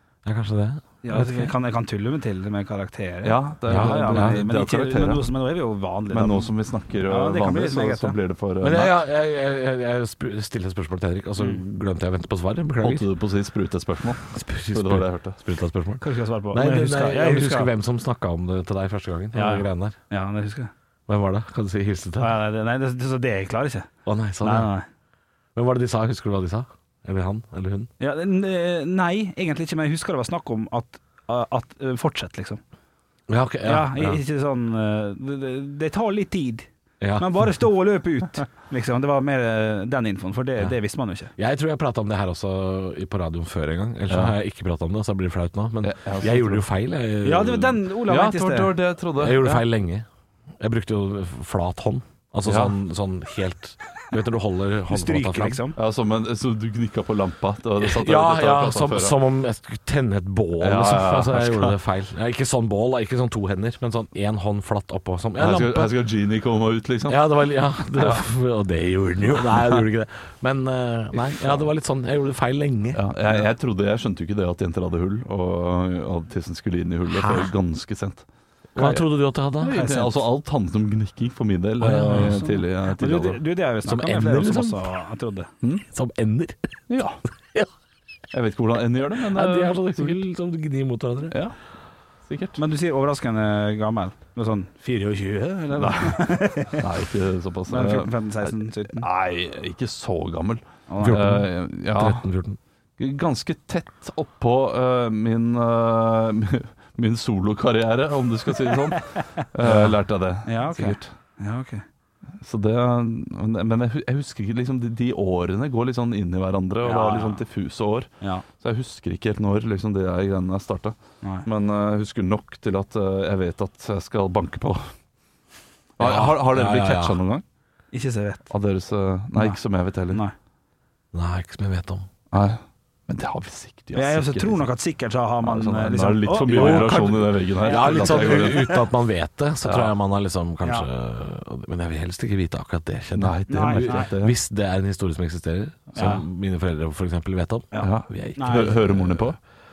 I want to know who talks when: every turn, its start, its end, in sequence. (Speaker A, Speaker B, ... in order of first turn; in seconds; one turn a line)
Speaker A: 0.2-1.5
Speaker B: 1.0-6.5
Speaker C: 3.2-5.2
Speaker A: 3.7-4.4
Speaker C: 6.1-8.9
Speaker B: 7.1-8.2
Speaker A: 8.6-13.1
Speaker C: 12.8-15.4
Speaker A: 14.3-20.0
Speaker B: 16.0-17.7
Speaker B: 19.3-20.7
Speaker A: 21.1-22.4
Speaker B: 22.2-23.9
Speaker A: 24.1-24.7
Speaker B: 24.4-24.9
Speaker A: 25.6-27.9
Speaker B: 28.0-32.6
Speaker A: 33.3-34.2
Speaker B: 33.6-36.7
Speaker A: 37.0-37.3
Speaker B: 37.2-41.3
Speaker A: 41.4-47.8
Speaker C: 44.1-44.4
Speaker C: 45.8-46.6
Speaker B: 47.2-48.8
Speaker C: 48.0-49.6
Speaker A: 49.2-50.1
Speaker A: 50.6-55.6
Speaker C: 52.5-52.8
Speaker B: 54.9-55.8
Speaker C: 55.8-59.2
Speaker A: 57.8-65.9
Speaker C: 60.6-61.8
Speaker C: 65.4-67.3
Speaker A: 67.1-73.0
Speaker C: 68.0-68.2
Speaker C: 69.3-69.8
Speaker C: 72.9-78.2
Speaker A: 77.1-77.5
Speaker A: 78.8-79.8
Speaker C: 78.8-79.0
Speaker C: 79.6-83.4
Speaker B: 79.7-80.2
Speaker A: 81.8-82.4
Speaker B: 82.0-85.5
Speaker A: 83.8-84.8
Speaker A: 85.9-86.7
Speaker C: 86.9-87.2
Speaker C: 88.3-90.2
Speaker A: 89.2-91.4
Speaker C: 92.3-92.6
Speaker B: 92.6-96.8
Speaker C: 95.8-102.3
Speaker B: 97.7-99.1
Speaker B: 100.9-101.2
Speaker A: 101.0-102.6
Speaker C: 103.0-111.1
Speaker B: 110.5-111.8
Speaker C: 112.4-124.9
Speaker B: 116.8-117.4
Speaker C: 126.0-127.4
Speaker A: 126.0-127.2
Speaker B: 127.9-128.5
Speaker C: 128.5-130.2
Speaker A: 131.1-132.1
Speaker C: 132.3-134.7
Speaker B: 133.9-138.8
Speaker C: 135.4-138.8
Speaker A: 136.4-149.4
Speaker C: 139.7-139.9
Speaker C: 143.2-144.4
Speaker B: 143.5-144.1
Speaker B: 145.9-146.2
Speaker B: 147.7-148.8
Speaker C: 147.8-149.4